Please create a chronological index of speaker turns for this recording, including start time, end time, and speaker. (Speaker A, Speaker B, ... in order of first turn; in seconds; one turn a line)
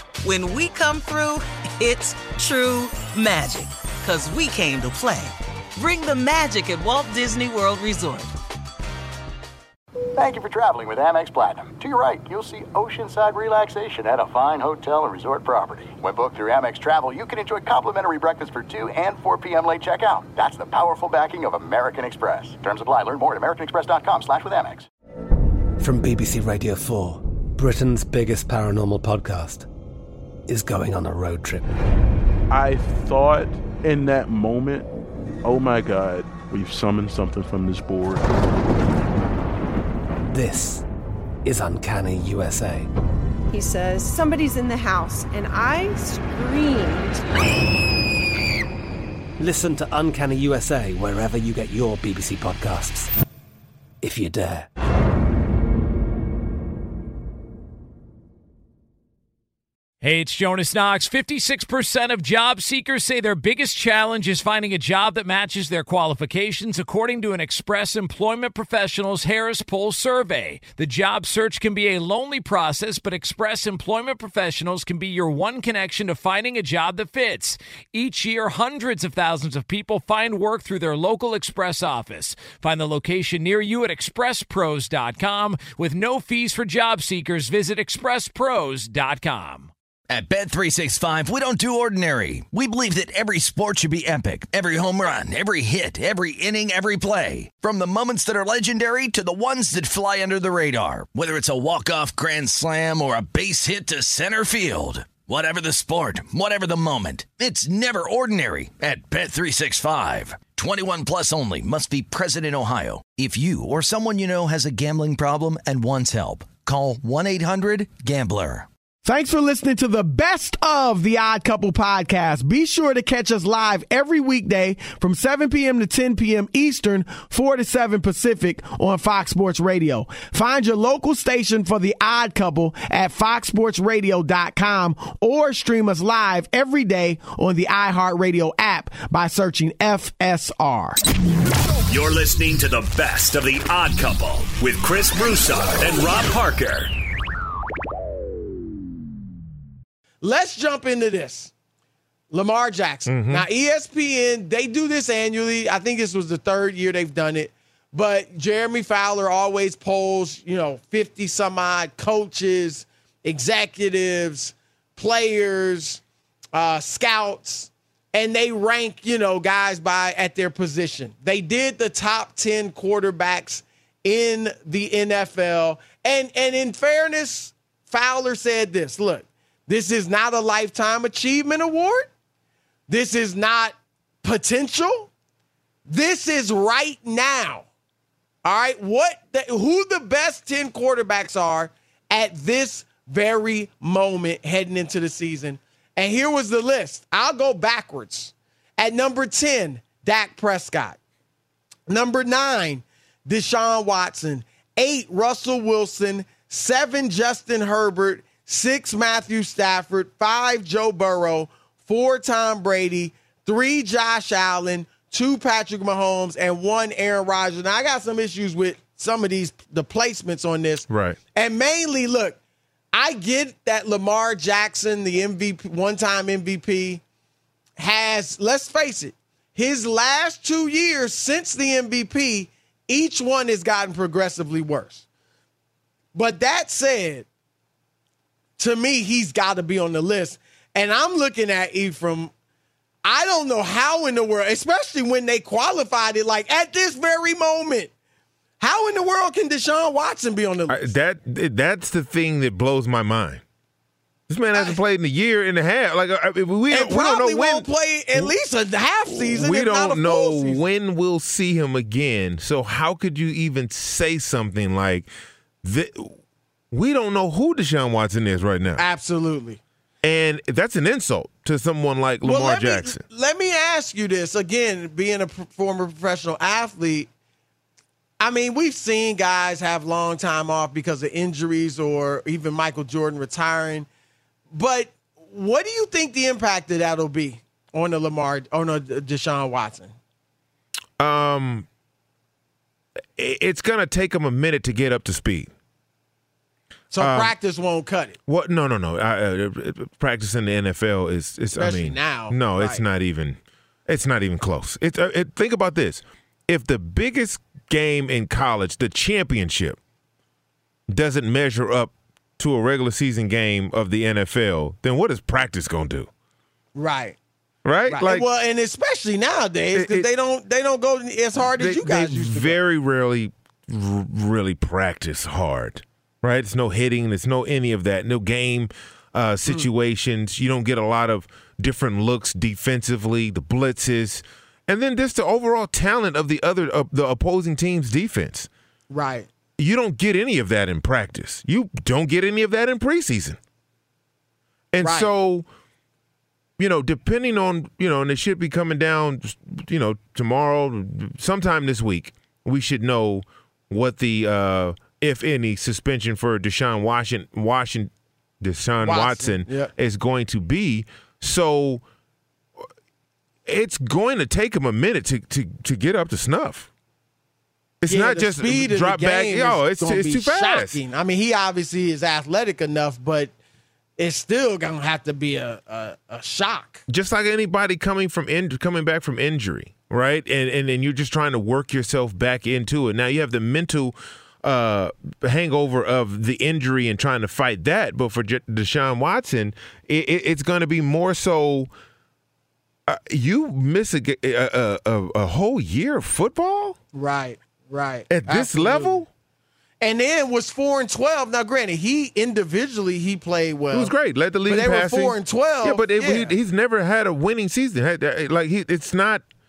Speaker A: 0.2-8.3
Speaker B: 10.2-24.9
Speaker C: 25.8-29.7
Speaker C: 30.5-31.7
Speaker D: 32.5-34.9
Speaker D: 35.4-38.3
Speaker C: 40.3-40.8
Speaker C: 41.4-42.9
Speaker E: 43.5-47.2
Speaker C: 49.4-53.1
Speaker C: 54.0-54.7
Speaker F: 60.0-89.7
Speaker G: 90.1-118.7
Speaker H: 119.0-141.0
Speaker I: 141.9-146.9
Speaker H: 150.2-151.5
Speaker H: 152.3-166.0
Speaker J: 153.1-153.5
Speaker H: 166.5-182.1
Speaker H: 182.9-185.1
Speaker H: 185.9-187.7
Speaker H: 188.4-201.0
Speaker H: 201.9-222.4
Speaker J: 220.9-221.2
Speaker H: 222.9-227.0
Speaker H: 227.8-235.0
Speaker H: 236.1-237.2
Speaker H: 238.6-242.3
Speaker H: 243.0-247.9
Speaker H: 248.6-250.9
Speaker J: 250.7-253.4
Speaker J: 254.3-258.4
Speaker H: 254.5-254.8
Speaker H: 256.7-260.6
Speaker J: 259.1-265.1
Speaker J: 265.6-266.2
Speaker J: 266.7-268.8
Speaker H: 268.8-269.6
Speaker J: 270.0-273.0
Speaker H: 272.2-277.1
Speaker H: 278.2-283.9
Speaker H: 284.5-289.9
Speaker J: 291.0-291.7
Speaker J: 293.2-295.5
Speaker H: 296.9-298.2
Speaker J: 297.0-297.4
Speaker J: 298.3-303.4
Speaker H: 301.6-302.8
Speaker J: 303.9-309.8
Speaker J: 310.9-316.1
Speaker H: 316.8-317.2
Speaker J: 317.6-318.3
Speaker H: 317.9-322.6
Speaker J: 319.7-320.1
Speaker J: 321.4-338.5
Speaker H: 338.9-339.3
Speaker J: 339.6-343.4
Speaker J: 344.7-345.4
Speaker H: 344.8-345.1
Speaker J: 346.6-361.8
Speaker H: 358.8-359.7
Speaker J: 363.4-366.7
Speaker J: 367.8-370.8
Speaker H: 367.9-373.3
Speaker H: 374.0-376.8
Speaker J: 376.9-391.7
Speaker J: 392.9-396.8
Speaker H: 396.9-399.0
Speaker J: 398.1-399.1
Speaker H: 399.8-403.9
Speaker J: 403.7-409.2
Speaker H: 404.5-406.3